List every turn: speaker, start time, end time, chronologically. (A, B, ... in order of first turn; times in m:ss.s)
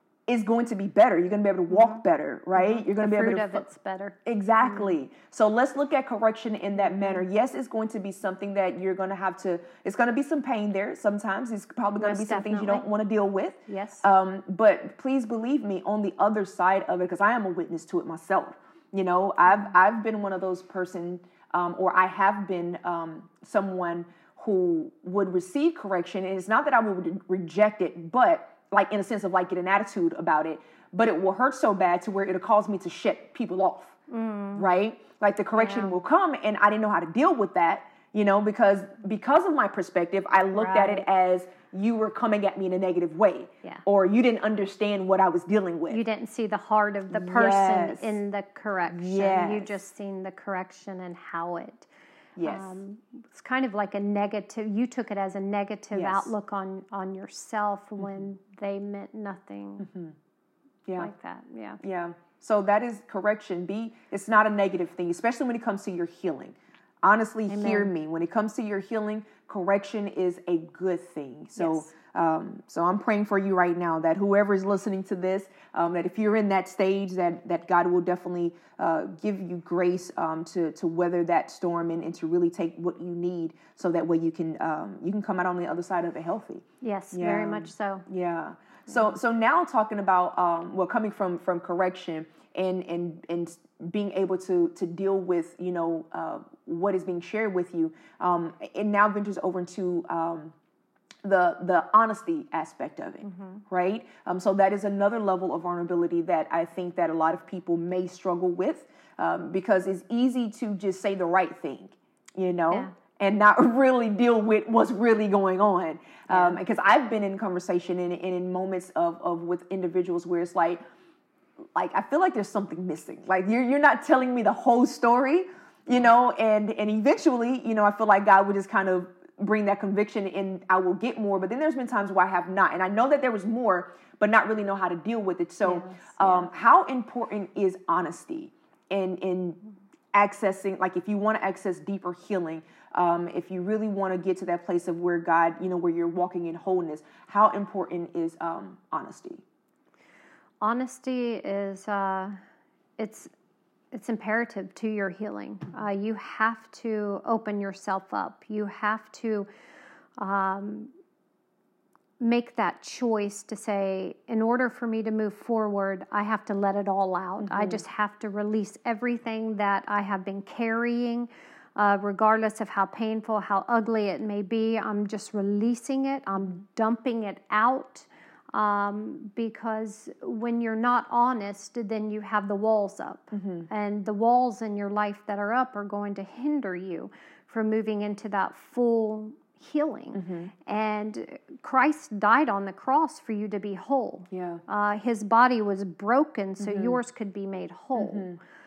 0:00.3-0:03.6 A
0:01.7-0:02.0 B
0:02.6-0:04.9 B
0:04.2-0:34.0 A
0:12.0-0:12.8 B
0:13.7-0:14.1 B
0:34.1-0:34.7 B
0:34.6-0:46.0 A
0:35.6-0:36.0 B
0:40.5-0:41.1 B
0:45.9-0:51.9 B
0:47.1-0:48.2 A
0:48.9-0:49.8 A
0:52.4-0:52.8 A
0:52.4-0:59.9 B
0:55.9-0:56.3 A
0:59.8-1:00.2 A
1:01.0-1:01.8 B
1:01.8-1:40.5 A
1:07.5-1:07.9 B
1:11.6-1:11.9 B
1:26.8-1:28.1 B
1:41.2-2:00.8 A
1:43.2-1:43.6 B
1:56.3-1:56.6 B
2:01.8-2:19.6 A
2:15.6-2:16.5 B
2:20.1-2:29.4 A
2:30.6-2:32.4 B
2:33.0-2:33.3 B
2:33.9-2:39.5 B
2:40.2-2:40.9 B
2:42.2-3:18.3 B
2:47.4-2:47.8 A
3:03.3-3:03.7 A
3:10.1-3:10.5 A
3:14.3-3:14.6 A
3:16.6-3:17.0 A
3:18.0-3:18.4 A